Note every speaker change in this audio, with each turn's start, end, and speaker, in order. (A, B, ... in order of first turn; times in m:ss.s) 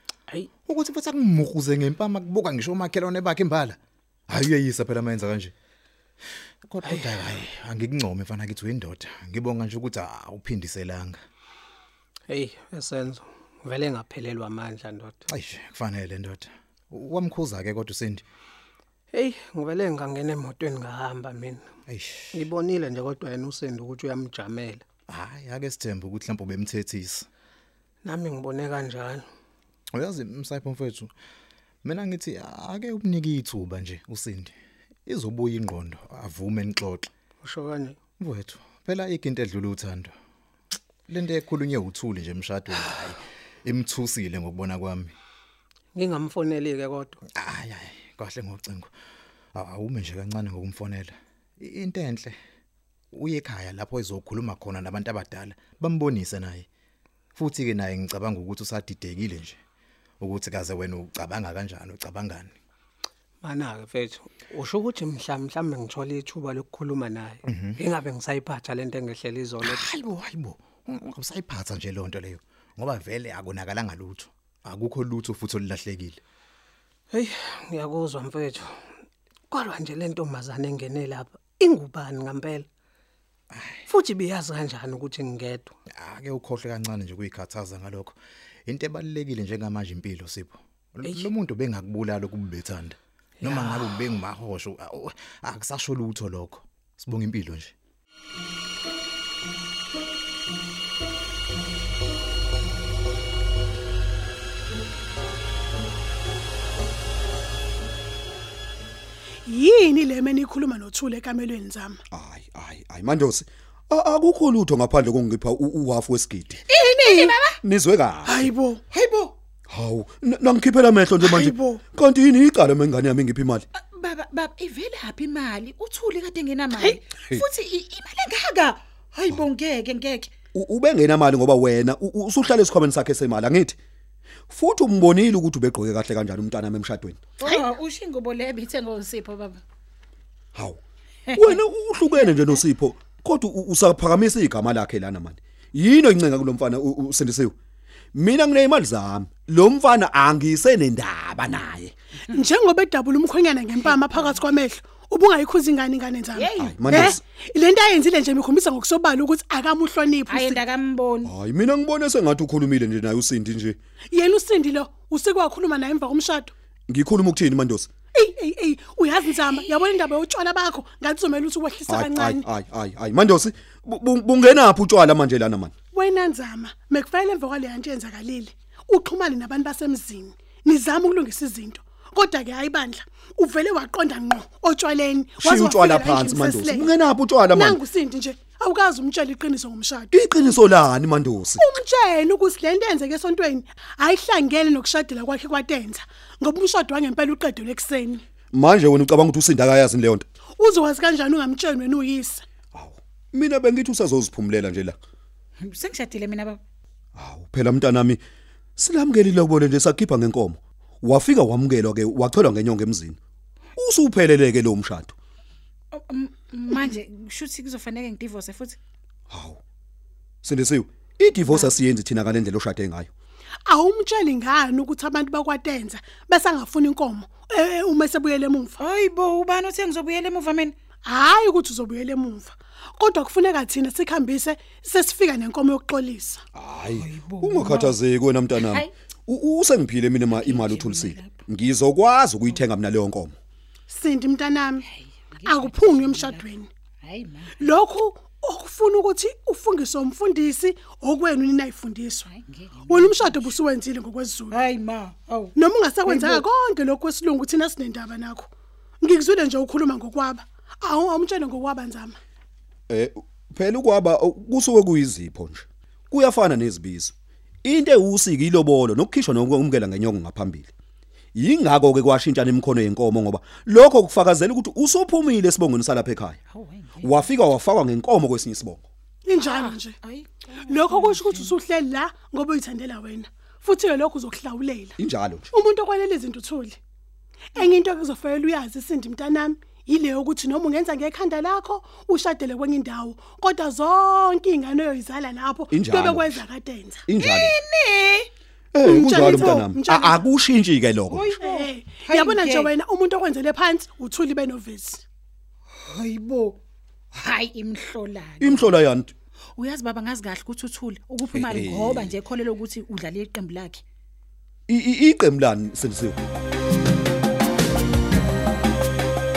0:00.6-0:03.8 A
0:04.3-0:05.5 A
0:06.7-0:11.2 A
0:06.8-0:07.4 B
0:12.3-0:15.2 B
0:15.3-0:18.2 A
0:19.1-0:21.6 B
0:21.9-0:22.4 A
0:22.3-0:24.8 B
0:25.1-0:27.3 A
0:28.0-0:29.3 B
0:29.9-0:31.1 A
0:31.8-0:34.5 A
0:35.1-0:37.1 A
0:37.4-0:38.0 B
0:38.2-0:40.1 A
0:41.1-0:45.1 A
0:46.0-0:47.2 B
0:47.4-0:48.9 A
0:49.6-0:52.4 A
0:53.1-0:56.7 A
0:57.4-0:59.6 A
1:00.2-1:02.5 A
1:03.4-1:10.0 B
1:07.4-1:07.8 A
1:09.6-1:16.2 A
1:17.1-1:18.8 B
1:19.5-1:22.7 B
1:23.5-1:23.8 A
1:23.9-1:25.7 B
1:26.0-1:37.7 A
1:33.4-1:34.0 B
1:49.5-1:52.0 C
1:52.1-1:56.6 D
1:56.7-1:57.6 E
1:57.6-1:58.5 D
1:58.3-1:58.8 C
1:58.9-1:59.3 E
1:59.7-2:03.7 D
2:01.4-2:01.8 C
2:03.8-2:10.3 E
2:10.5-2:13.8 D
2:14.5-2:17.6 D
2:17.4-2:19.6 E
2:20.6-2:20.8 D
2:21.3-2:21.6 E
2:21.3-2:27.5 D
2:22.1-2:22.6 E
2:28.2-2:31.9 D
2:32.3-2:40.6 C
2:33.8-2:34.4 E
2:36.3-2:37.2 E
2:36.6-2:37.2 D
2:40.2-2:41.3 E
2:41.2-2:43.8 D
2:44.1-2:46.5 C
2:46.9-2:47.9 D
2:48.1-2:52.4 C
2:49.4-2:50.0 E
2:51.9-2:55.7 D
2:55.9-3:06.9 C
3:05.4-3:07.8 D
3:07.5-3:10.1 C
3:10.1-3:11.6 D
3:11.6-3:18.2 C
3:18.5-3:20.3 D
3:20.6-3:22.4 C
3:22.7-3:25.0 D
3:25.6-3:26.6 E
3:27.2-3:28.2 D
3:28.8-3:33.2 D
3:33.8-3:35.1 D
3:35.9-3:38.8 E
3:39.3-3:39.6 D
3:40.4-3:43.1 D
3:43.7-3:48.7 C
3:48.8-3:50.8 E
3:51.0-3:56.4 C
3:56.6-4:03.4 D
3:56.9-3:58.0 E
3:58.6-3:58.9 E
4:00.3-4:01.3 E
4:03.9-4:04.8 C
4:04.8-4:06.5 E
4:05.4-4:06.7 C
4:07.0-4:07.7 E
4:07.6-4:12.2 C
4:12.2-4:13.6 E
4:12.9-4:14.5 C
4:14.5-4:16.5 E
4:15.6-4:18.5 C
4:19.0-4:22.2 C
4:22.9-4:27.1 D
4:27.6-4:30.7 D
4:31.4-4:36.4 D
4:36.5-4:37.3 E
4:37.0-4:38.8 D
4:39.2-4:40.0 C
4:39.3-4:41.6 E
4:40.7-4:45.0 C
4:45.0-4:45.5 D
4:45.5-4:46.8 C
4:47.6-4:57.0 C
4:55.7-4:56.4 D
4:57.1-4:57.6 D
4:57.2-4:58.3 E
4:58.7-5:01.3 D
4:58.8-5:00.2 C
4:59.3-4:59.7 E
5:01.1-5:02.8 E
5:01.4-5:05.0 C
5:05.9-5:06.6 E
5:07.1-5:08.7 E
5:08.4-5:09.1 D
5:09.6-5:13.8 E
5:11.4-5:12.1 D
5:14.7-5:16.2 D